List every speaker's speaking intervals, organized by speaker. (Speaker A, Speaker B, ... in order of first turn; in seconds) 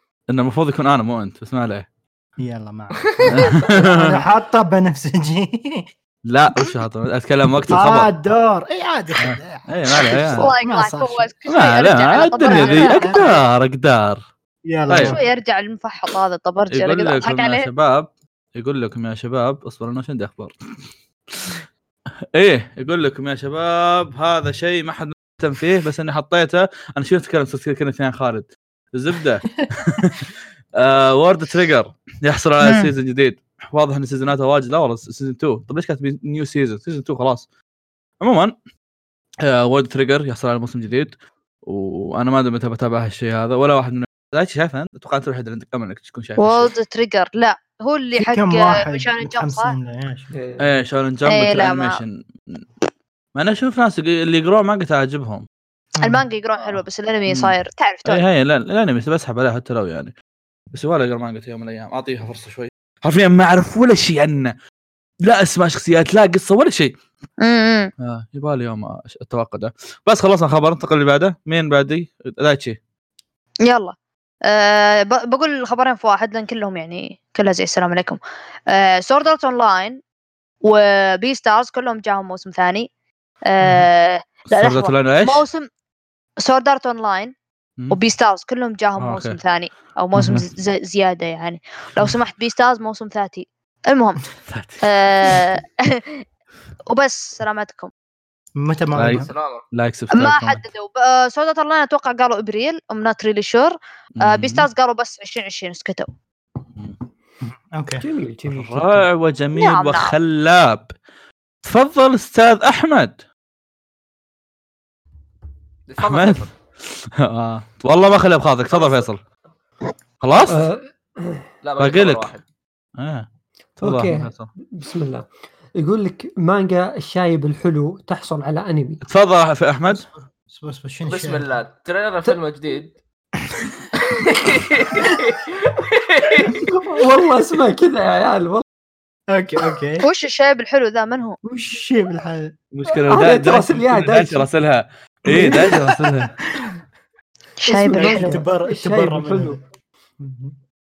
Speaker A: 0.3-1.9, 3.3-4.2, 6.3-8.1, 9.2-10.5, 11.5-14.2, 14.9-15.2, 16.7-20.6, 21.3-21.6, 22.3-37.5, 38.2-38.5, 39.4-46.7, 50.6-52.6, 53.3-55.4, 57.2-60.1, 60.7-64.5, 65.2-66.9, 68.0-72.8, 84.5-85.4, 89.0-89.4, 90.1-90.5, 94.5-95.4, 99.0-100.6, 104.2-104.7, 108.5-110.9, 111.6-113.2, 116.0-116.5, 117.1-119.2, 120.2-120.7, 121.8-122.3, 123.0-123.3, 123.8-124.5, 129.0-130.0, 142.7-146.3
Speaker B: 2.4-5.9, 7.7-11.3, 12.4-13.4, 14.7-15.2, 48.2-50.3, 98.5-99.3, 107.4-108.0, 129.9-131.4, 133.5-133.9, 139.3-140.1, 141.4-142.5, 145.3-146.7, 147.7-149.6, 150.2-150.6
Speaker C: 10.3-13.3, 15.0-17.7, 32.6-32.9, 46.4-49.7, 51.2-52.0, 56.0-58.2, 67.4-67.9, 73.7-73.9, 74.5-80.0, 80.6-82.9, 83.4-85.7, 86.4-87.3, 87.9-94.2, 94.8-96.2, 96.9-97.9, 100.1-106.1, 109.5-110.1, 140.0-141.4, 147.6-148.4
Speaker D: 50.3-50.7, 108.0-109.1, 120.5-121.5, 123.8-129.0, 136.4-138.6, 142.9-144.5, 147.6-149.6
Speaker E: 99.1-99.6, 115.9-116.5, 118.7-119.1, 121.6-122.4, 131.1-132.9, 134.1-136.7